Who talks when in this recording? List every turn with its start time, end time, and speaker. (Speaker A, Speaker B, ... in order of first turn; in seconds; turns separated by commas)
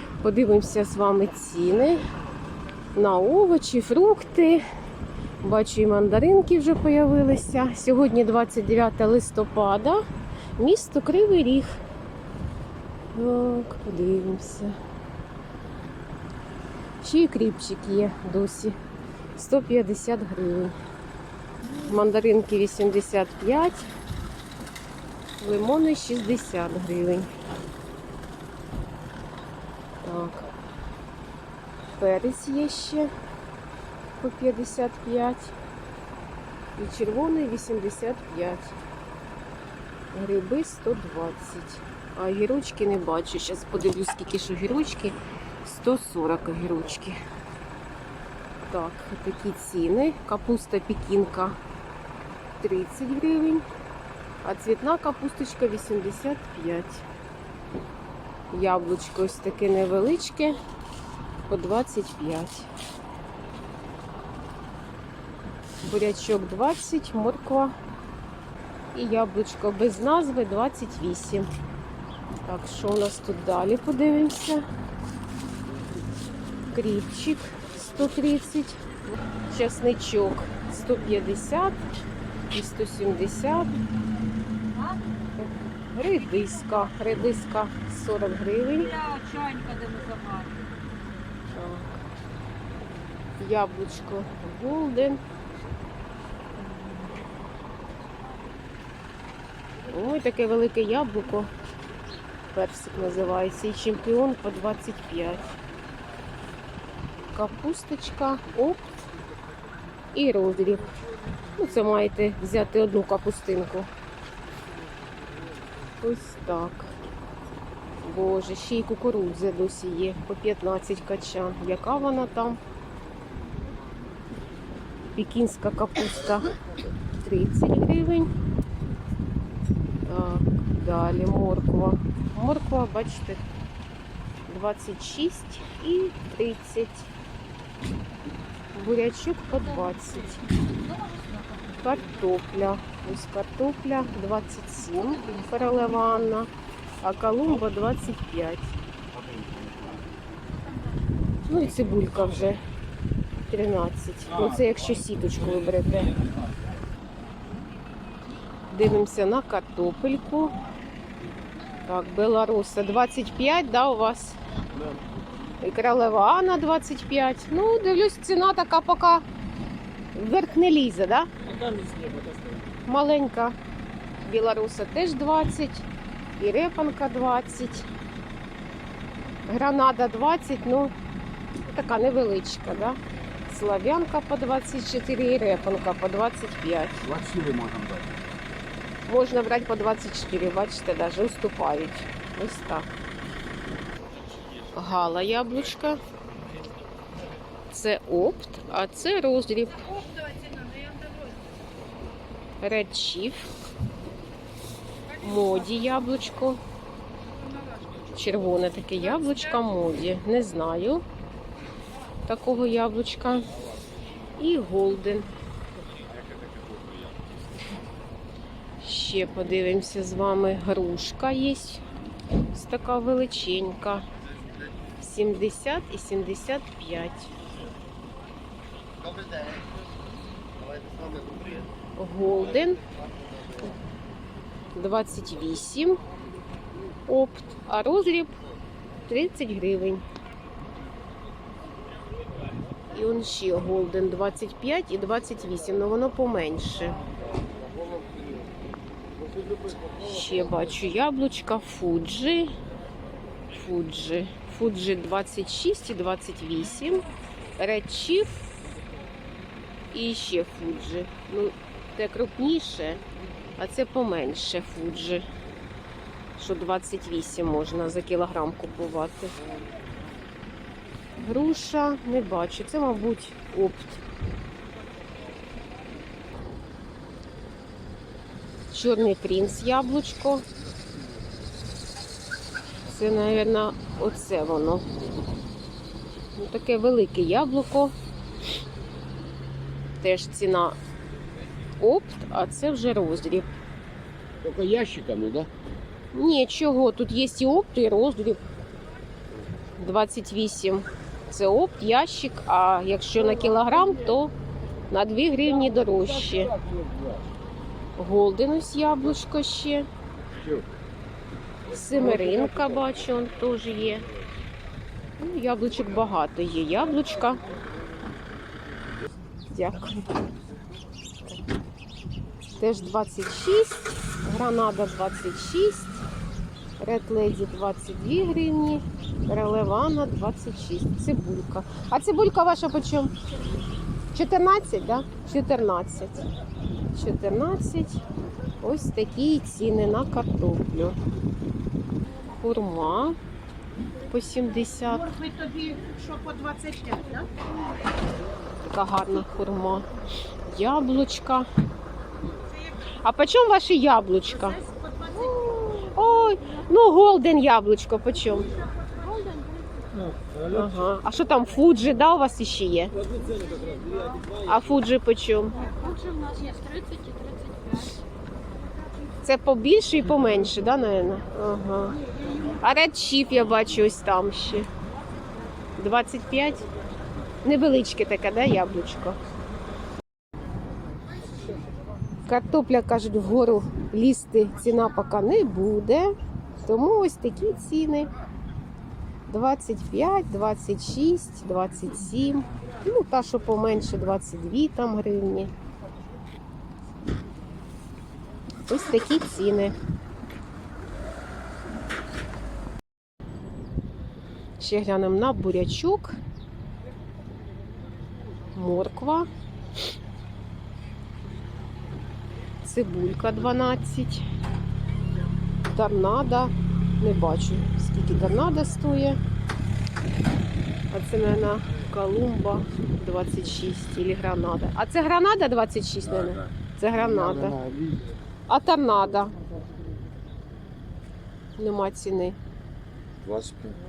Speaker A: 0.2-2.0, Speaker A: 2.9-4.6, Speaker A: 5.4-10.0, Speaker A: 10.6-11.8, Speaker A: 13.1-14.7, Speaker A: 17.0-18.8, Speaker A: 19.4-20.7, Speaker A: 21.8-23.9, Speaker A: 25.4-27.3, Speaker A: 30.0-30.5, Speaker A: 32.0-33.1, Speaker A: 34.2-35.5, Speaker A: 36.8-38.7, Speaker A: 40.1-47.2, Speaker A: 48.6-51.6, Speaker A: 52.6-53.6, Speaker A: 54.4-57.0, Speaker A: 58.5-60.6, Speaker A: 61.5-62.7, Speaker A: 65.8-67.7, Speaker A: 68.9-71.5, Speaker A: 72.5-74.6, Speaker A: 76.7-78.8, Speaker A: 79.5-81.8, Speaker A: 82.5-83.8, Speaker A: 85.9-89.1, Speaker B: 89.0-90.6, Speaker A: 91.5-91.9, Speaker A: 93.4-95.2, Speaker A: 96.6-97.0, Speaker A: 99.9-101.5, Speaker A: 102.5-105.6, Speaker A: 107.3-108.9, Speaker A: 110.1-110.9, Speaker A: 111.5-113.9, Speaker A: 116.0-116.9, Speaker A: 118.0-122.6, Speaker A: 125.2-126.5, Speaker A: 127.1-128.3, Speaker A: 130.1-133.4, Speaker A: 134.5-137.1, Speaker A: 138.7-140.5, Speaker B: 140.8-141.6, Speaker A: 141.7-146.5, Speaker A: 147.0-148.7, Speaker C: 149.2-150.0, Speaker A: 151.4-152.6, Speaker A: 153.5-156.2, Speaker A: 158.7-160.5, Speaker A: 161.8-164.4, Speaker A: 165.6-169.2, Speaker A: 170.1-171.3, Speaker C: 171.5-172.6, Speaker A: 172.8-173.6, Speaker A: 174.2-175.9, Speaker A: 176.4-177.9, Speaker A: 179.4-180.9, Speaker A: 181.7-187.1, Speaker C: 187.0-188.2, Speaker A: 189.1-192.9, Speaker A: 194.7-196.0, Speaker A: 197.7-200.2, Speaker B: 200.5-200.9, Speaker A: 202.6-203.5, Speaker A: 205.1-206.6, Speaker A: 208.0-211.0, Speaker A: 212.2-213.5, Speaker A: 214.4-215.3, Speaker A: 218.8-221.8, Speaker A: 222.5-224.0, Speaker A: 225.0-227.3, Speaker A: 231.9-232.8, Speaker A: 234.8-236.0, Speaker A: 237.1-238.3, Speaker A: 239.1-240.0, Speaker A: 242.9-247.0, Speaker A: 250.0-252.6, Speaker A: 253.5-257.1, Speaker A: 257.6-258.3, Speaker A: 259.9-263.0, Speaker A: 263.6-265.2, Speaker A: 266.4-269.3, Speaker A: 271.2-274.0, Speaker A: 278.7-280.4, Speaker A: 282.9-284.8, Speaker A: 286.4-287.9, Speaker A: 290.0-290.8, Speaker A: 291.8-293.5, Speaker C: 294.4-295.5, Speaker A: 296.1-298.4, Speaker A: 299.8-304.3, Speaker A: 304.9-306.5, Speaker C: 306.3-307.2, Speaker A: 308.0-309.9, Speaker C: 310.3-310.7, Speaker A: 311.7-314.1, Speaker A: 315.2-317.4, Speaker A: 319.5-320.1, Speaker A: 322.6-326.0, Speaker A: 326.8-333.1, Speaker A: 334.1-336.2, Speaker A: 336.9-338.0, Speaker A: 338.6-341.0, Speaker A: 342.3-343.2, Speaker A: 344.1-345.2, Speaker B: 345.2-347.3, Speaker A: 348.7-349.9, Speaker A: 350.4-351.5, Speaker A: 353.0-358.5, Speaker B: 359.1-359.4, Speaker A: 360.5-362.9, Speaker A: 364.4-365.7, Speaker B: 365.8-367.9, Speaker A: 369.2-374.7, Speaker A: 375.8-376.6, Speaker A: 377.4-379.2, Speaker A: 382.2-388.1, Speaker A: 389.3-395.5, Speaker A: 398.6-399.7, Speaker A: 404.6-406.1, Speaker A: 408.5-409.3, Speaker A: 412.6-414.2, Speaker A: 415.7-419.2, Speaker A: 420.9-427.6, Speaker C: 426.2-426.5, Speaker C: 427.5-427.9, Speaker A: 428.5-429.4, Speaker A: 431.6-432.4, Speaker C: 433.2-433.8